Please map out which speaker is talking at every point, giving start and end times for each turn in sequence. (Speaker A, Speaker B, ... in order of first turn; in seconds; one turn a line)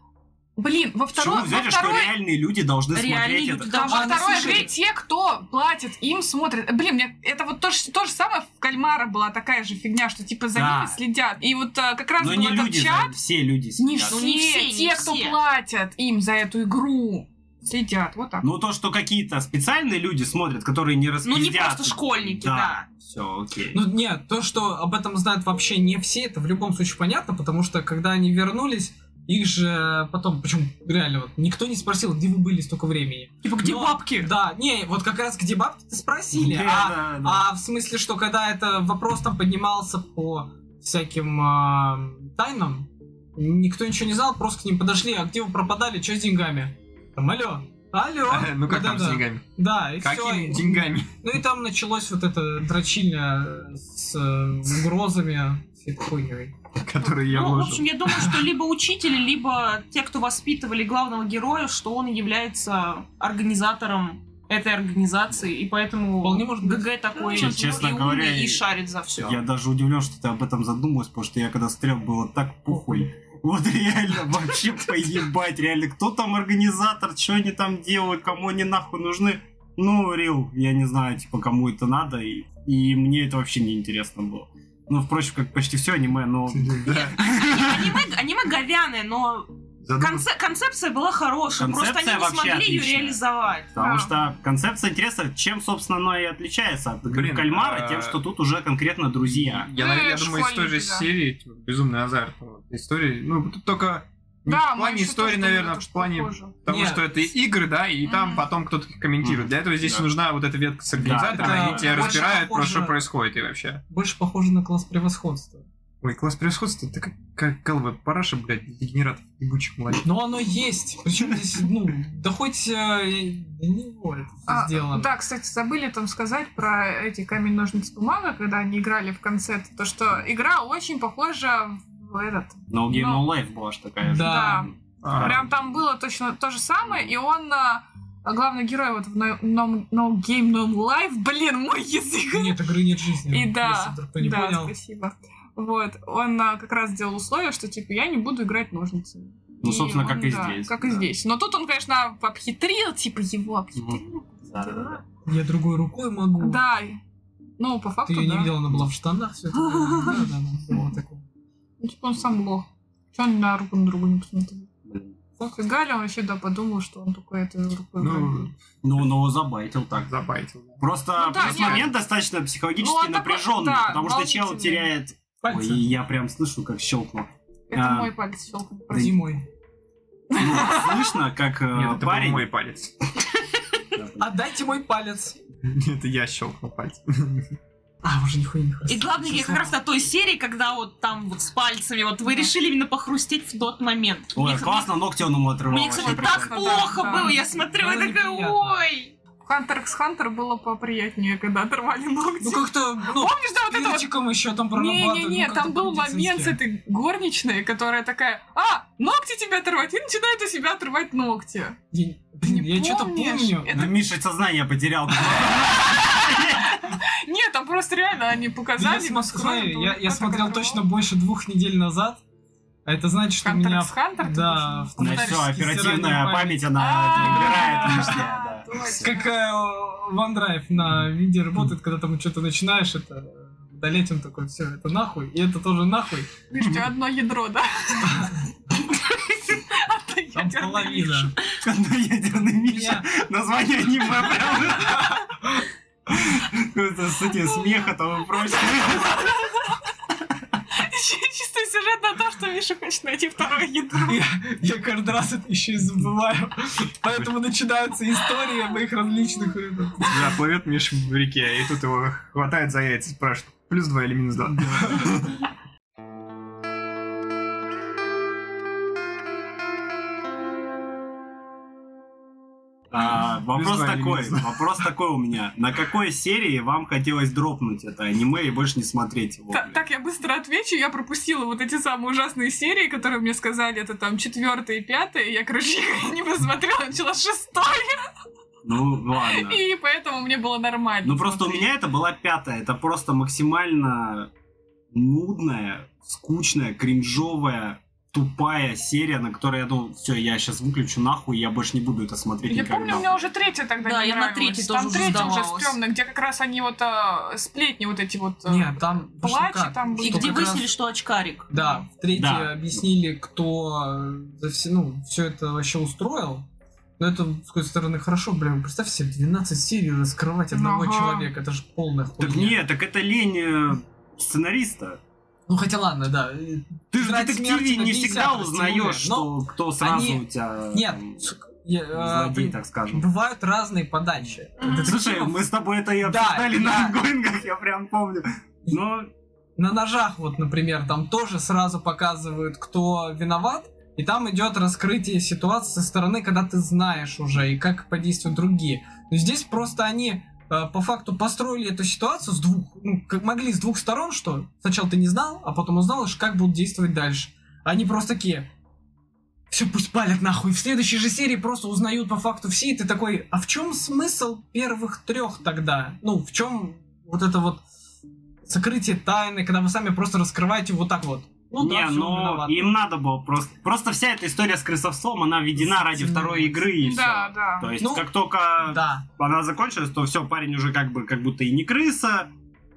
Speaker A: 0.6-2.1
Speaker B: 1.1-4.0
Speaker C: 2.9-4.7
Speaker A: 3.9-13.2
Speaker D: 3.9-4.7
Speaker B: 10.5-11.0
Speaker B: 12.2-14.2
Speaker A: 13.8-18.5
Speaker C: 14.1-15.4
Speaker B: 18.4-23.8
Speaker C: 21.2-22.9
Speaker D: 23.7-56.6
Speaker C: 33.4-34.3
Speaker B: 36.3-37.5
Speaker E: 48.3-51.1
Speaker E: 56.8-57.9
Speaker C: 57.2-69.4
Speaker D: 66.2-67.7
Speaker B: 67.3-68.6
Speaker B: 69.2-88.0
Speaker D: 72.7-73.0
Speaker E: 86.5-87.2
Speaker C: 86.9-93.7
Speaker E: 89.8-90.3
Speaker B: 91.6-93.2
Speaker B: 93.7-99.7
Speaker A: 93.8-94.1
Speaker E: 97.1-98.2
Speaker E: 99.3-113.8
Speaker A: 99.8-101.1
Speaker A: 104.5-106.5
Speaker D: 106.7-107.2
Speaker A: 108.0-108.5
Speaker B: 109.2-110.1
Speaker B: 111.0-112.2
Speaker D: 111.3-113.0
Speaker D: 113.9-115.7
Speaker E: 116.0-120.0
Speaker D: 120.0-125.1
Speaker A: 124.5-133.3
Speaker B: 132.7-135.5
Speaker D: 134.1-134.7
Speaker A: 134.2-142.6
Speaker E: 135.0-135.4
Speaker D: 142.3-144.7
Speaker A: 143.3-155.0
Speaker B: 149.6-151.1
Speaker B: 153.8-155.0
Speaker D: 155.3-156.6
Speaker A: 156.4-157.0
Speaker A: 157.6-158.5
Speaker D: 158.1-161.2
Speaker A: 159.6-160.2
Speaker A: 161.8-164.7
Speaker B: 164.9-165.2
Speaker A: 165.4-168.5
Speaker E: 168.0-168.5
Speaker B: 168.8-170.1
Speaker E: 170.0-171.9
Speaker B: 170.8-178.1
Speaker A: 171.2-171.9
Speaker A: 172.8-174.9
Speaker D: 175.4-175.9
Speaker A: 177.7-179.3
Speaker B: 178.9-179.2
Speaker D: 178.9-179.4
Speaker B: 180.3-182.5
Speaker A: 180.3-181.1
Speaker E: 181.7-182.9
Speaker B: 183.9-184.3
Speaker D: 184.2-185.4
Speaker E: 185.7-187.5
Speaker D: 188.0-189.8
Speaker C: 188.9-194.9
Speaker A: 192.2-192.5
Speaker B: 194.3-196.9
Speaker C: 195.7-199.1
Speaker A: 195.9-197.5
Speaker D: 197.1-198.8
Speaker A: 199.4-204.1
Speaker D: 202.4-206.6
Speaker A: 204.7-211.8
Speaker D: 211.9-213.8
Speaker A: 212.4-214.0
Speaker B: 213.7-216.8
Speaker A: 216.0-220.9
Speaker D: 218.8-222.2
Speaker D: 222.9-228.2
Speaker A: 223.4-225.5
Speaker B: 225.0-229.2
Speaker A: 226.8-229.3
Speaker D: 229.0-236.3
Speaker A: 236.5-238.3
Speaker A: 239.5-241.3
Speaker D: 240.3-241.3
Speaker B: 241.6-245.2
Speaker D: 242.7-243.1
Speaker D: 245.0-245.6
Speaker B: 246.1-249.3
Speaker A: 247.5-247.9
Speaker A: 248.5-249.7
Speaker A: 250.7-254.2
Speaker D: 254.1-260.4
Speaker E: 260.1-265.4
Speaker B: 272.9-279.8
Speaker E: 273.5-274.7
Speaker A: 279.5-287.9
Speaker B: 288.6-289.6
Speaker A: 289.2-291.7
Speaker B: 291.0-294.3
Speaker B: 294.9-303.1
Speaker A: 302.5-310.5
Speaker C: 303.8-305.8
Speaker D: 308.5-310.7
Speaker C: 310.0-311.5
Speaker D: 311.5-316.5
Speaker A: 311.5-311.9
Speaker B: 312.1-312.5
Speaker D: 317.0-322.6
Speaker A: 320.5-321.3
Speaker B: 322.2-325.0
Speaker D: 325.5-335.4
Speaker B: 326.9-331.2
Speaker B: 331.9-333.1
Speaker A: 334.6-334.9
Speaker B: 334.8-339.1
Speaker D: 336.0-337.0
Speaker D: 339.6-358.5
Speaker D: 359.5-367.6
Speaker D: 368.4-372.7
Speaker B: 371.6-382.3
Speaker D: 375.6-376.6
Speaker A: 376.8-377.7
Speaker D: 377.8-378.1
Speaker D: 378.6-379.1